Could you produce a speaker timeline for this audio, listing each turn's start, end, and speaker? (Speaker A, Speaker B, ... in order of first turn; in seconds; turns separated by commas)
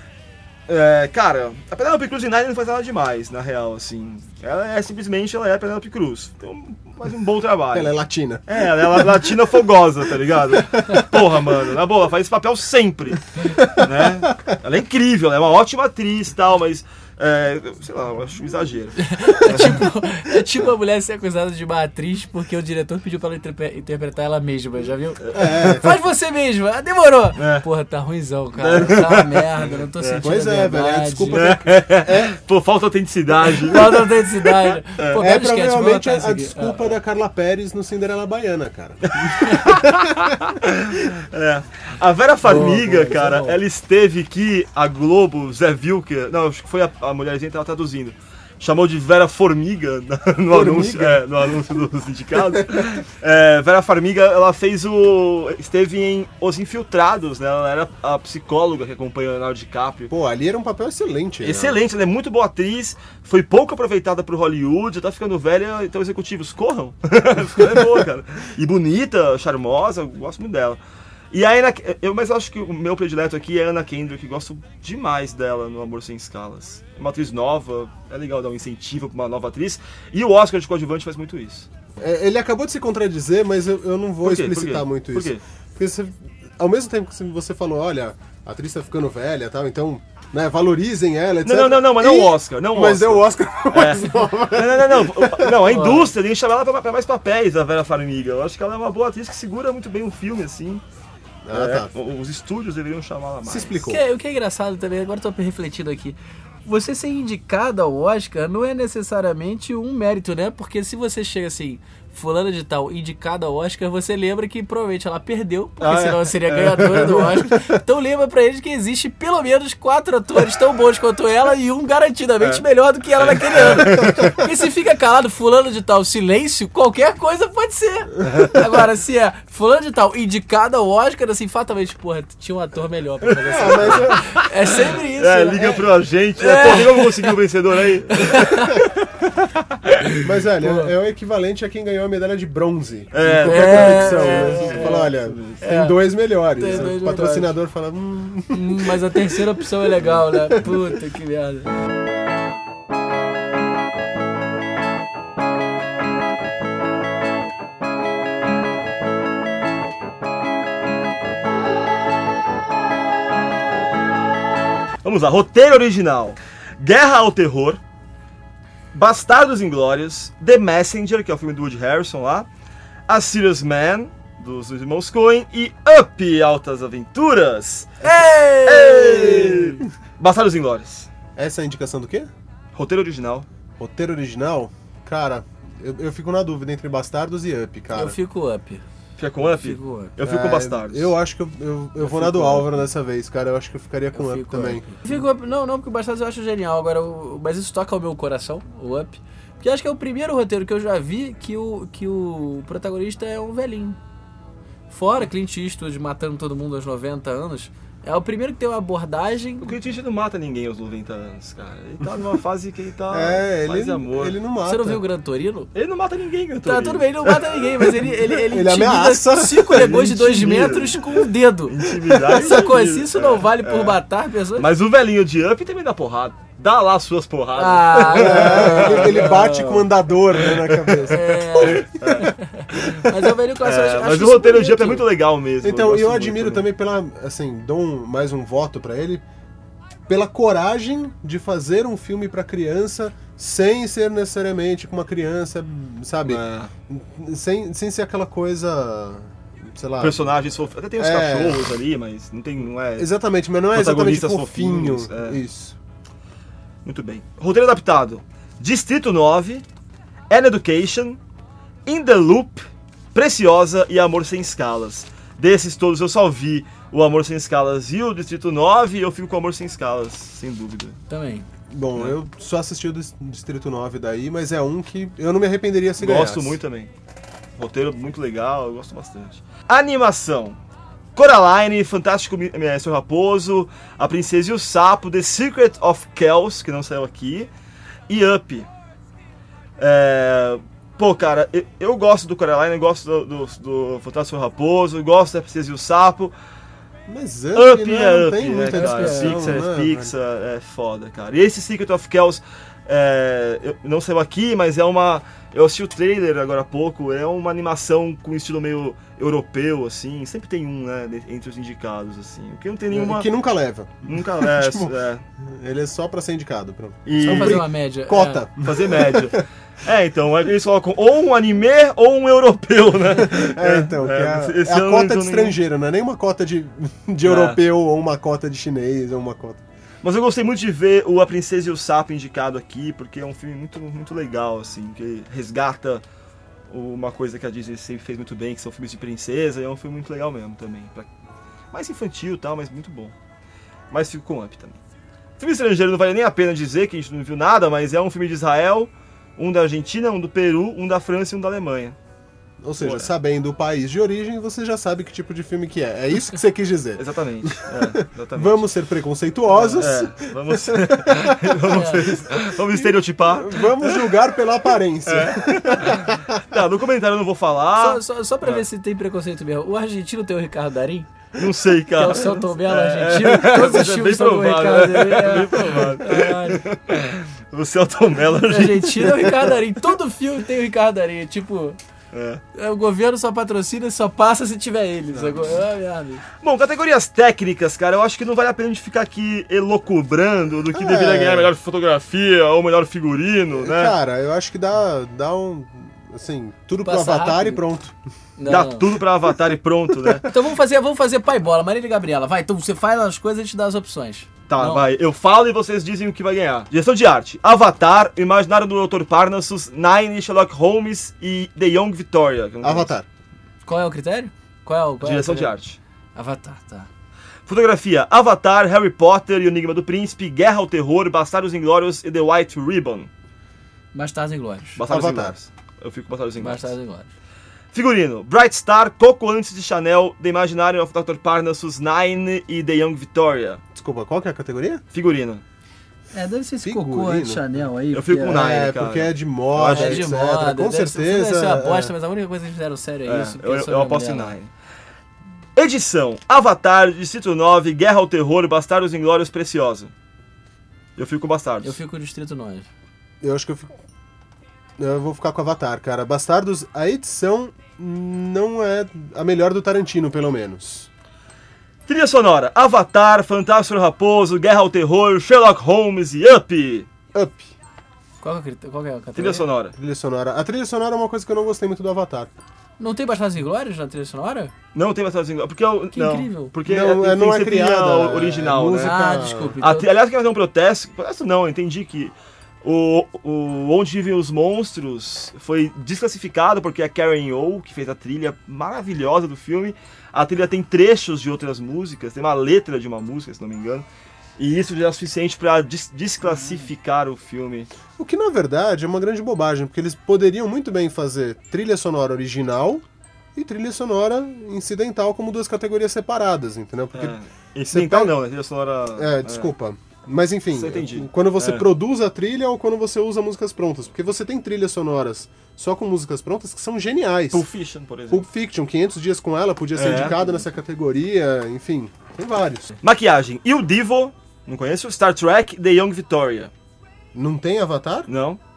Speaker A: 0.7-7.9, Speaker B: 7.7-9.3, Speaker A: 8.5-19.8, Speaker B: 10.6-11.0, Speaker B: 13.6-13.9, Speaker C: 19.0-31.6, Speaker A: 25.2-25.7, Speaker B: 25.3-25.9, Speaker A: 27.4-27.6, Speaker A: 28.6-30.2, Speaker B: 30.2-32.3, Speaker A: 31.3-34.1, Speaker C: 33.7-36.9, Speaker A: 35.0-35.2, Speaker B: 35.1-40.3, Speaker A: 39.1-60.1, Speaker C: 42.4-43.6, Speaker B: 50.5-51.2, Speaker B: 60.1-61.8, Speaker A: 61.4-70.8, Speaker A: 71.3-81.7, Speaker B: 82.0-95.8, Speaker A: 84.2-85.4, Speaker A: 91.4-100.8, Speaker C: 95.7-96.1, Speaker B: 101.4-101.9, Speaker A: 101.5-103.9, Speaker B: 103.4-104.0, Speaker C: 103.9-135.8, Speaker A: 115.8-117.4, Speaker A: 123.2-124.4, Speaker A: 128.3-128.6, Speaker A: 133.4-134.4, Speaker B: 133.5-134.3, Speaker A: 135.2-139.0, Speaker C: 136.4-137.3, Speaker C: 138.1-138.8, Speaker B: 140.2-149.3, Speaker C: 140.6-140.9, Speaker A: 143.1-145.6, Speaker C: 143.4-145.1, Speaker C: 145.6-146.0, Speaker C: 146.5-147.5, Speaker C: 148.5-151.7, Speaker A: 165.0-167.8, Speaker A: 168.9-172.5, Speaker A: 173.1-181.1, Speaker C: 178.0-179.8, Speaker B: 179.1-179.7, Speaker B: 181.3-182.3, Speaker A: 182.7-183.5, Speaker B: 183.8-188.2, Speaker C: 187.9-188.8, Speaker A: 189.2-191.1, Speaker C: 189.5-190.1, Speaker B: 190.2-194.9, Speaker C: 192.0-192.6, Speaker C: 194.1-204.0, Speaker C: 204.9-209.7, Speaker A: 209.6-214.4, Speaker B: 213.1-215.0, Speaker C: 214.6-215.7, Speaker A: 215.7-217.6, Speaker C: 216.6-221.8, Speaker B: 218.4-220.9, Speaker A: 219.8-221.0, Speaker A: 221.7-224.0, Speaker C: 222.3-224.7, Speaker A: 224.6-229.3, Speaker C: 227.6-229.8, Speaker B: 228.1-232.0, Speaker A: 230.4-233.0, Speaker C: 231.1-235.0, Speaker A: 233.6-236.7, Speaker B: 235.6-239.2, Speaker B: 240.1-250.3, Speaker A: 246.2-246.7, Speaker A: 250.0-253.1, Speaker B: 251.0-251.7, Speaker B: 252.9-255.8, Speaker A: 253.7-255.4, Speaker A: 256.8-259.6, Speaker A: 260.3-261.2, Speaker A: 261.9-271.0, Speaker C: 271.1-271.4, Speaker B: 271.7-276.6, Speaker A: 276.0-276.9, Speaker A: 277.6-280.6, Speaker A: 281.1-287.5, Speaker A: 288.1-288.7, Speaker A: 289.8-296.3, Speaker B: 297.1-300.1, Speaker A: 297.5-313.3, Speaker C: 298.7-299.6, Speaker B: 312.9-319.4, Speaker A: 314.1-315.2, Speaker A: 317.1-317.6, Speaker C: 317.2-318.4, Speaker A: 318.6-325.6, Speaker B: 323.2-329.6, Speaker A: 327.2-327.6, Speaker A: 330.0-336.0, Speaker A: 336.7-341.1, Speaker A: 341.7-343.1, Speaker A: 343.9-344.8, Speaker A: 345.4-351.9, Speaker B: 352.6-366.4, Speaker A: 352.8-353.1, Speaker A: 356.9-358.7, Speaker C: 359.5-359.8, Speaker A: 359.8-364.1, Speaker C: 361.7-362.0, Speaker A: 365.1-368.6, Speaker C: 367.8-371.1, Speaker A: 371.4-379.7, Speaker C: 371.9-376.6, Speaker C: 378.5-381.8, Speaker A: 382.1-382.4, Speaker C: 382.5-386.2, Speaker A: 385.1-385.6, Speaker A: 386.4-393.9, Speaker B: 390.7-391.5, Speaker B: 393.6-398.0, Speaker C: 396.8-397.6, Speaker C: 398.4-398.8, Speaker A: 398.4-400.3, Speaker C: 400.3-404.8, Speaker A: 404.5-412.9, Speaker B: 412.6-413.1, Speaker C: 413.6-415.5, Speaker A: 415.0-415.8, Speaker C: 416.1-416.9, Speaker A: 417.4-423.1, Speaker C: 423.9-424.8, Speaker A: 424.8-426.7, Speaker B: 424.9-425.3, Speaker C: 426.4-427.1, Speaker A: 427.7-433.6, Speaker B: 433.7-434.8, Speaker A: 434.9-435.4, Speaker C: 436.1-438.4, Speaker B: 436.6-437.4, Speaker A: 437.9-440.1, Speaker B: 438.2-441.9, Speaker C: 439.7-444.3, Speaker A: 443.1-444.5, Speaker A: 445.6-449.9, Speaker A: 450.9-451.8, Speaker C: 451.6-452.7, Speaker B: 453.2-453.7, Speaker B: 454.8-460.9, Speaker A: 461.9-466.9, Speaker B: 467.1-467.5, Speaker C: 468.2-469.5, Speaker A: 469.1-469.7, Speaker B: 469.8-472.3, Speaker C: 472.8-474.5, Speaker A: 474.7-479.0, Speaker C: 475.9-476.5, Speaker B: 476.6-479.6, Speaker C: 478.8-479.9, Speaker A: 479.6-493.9, Speaker A: 494.4-497.7, Speaker B: 498.0-502.8, Speaker B: 503.3-507.1, Speaker A: 506.9-509.5, Speaker B: 507.7-508.1, Speaker B: 508.9-517.5, Speaker A: 510.5-511.7, Speaker A: 517.3-518.3, Speaker B: 518.1-522.8, Speaker A: 519.8-520.2, Speaker A: 522.8-526.5, Speaker B: 527.1-528.1, Speaker A: 528.1-528.4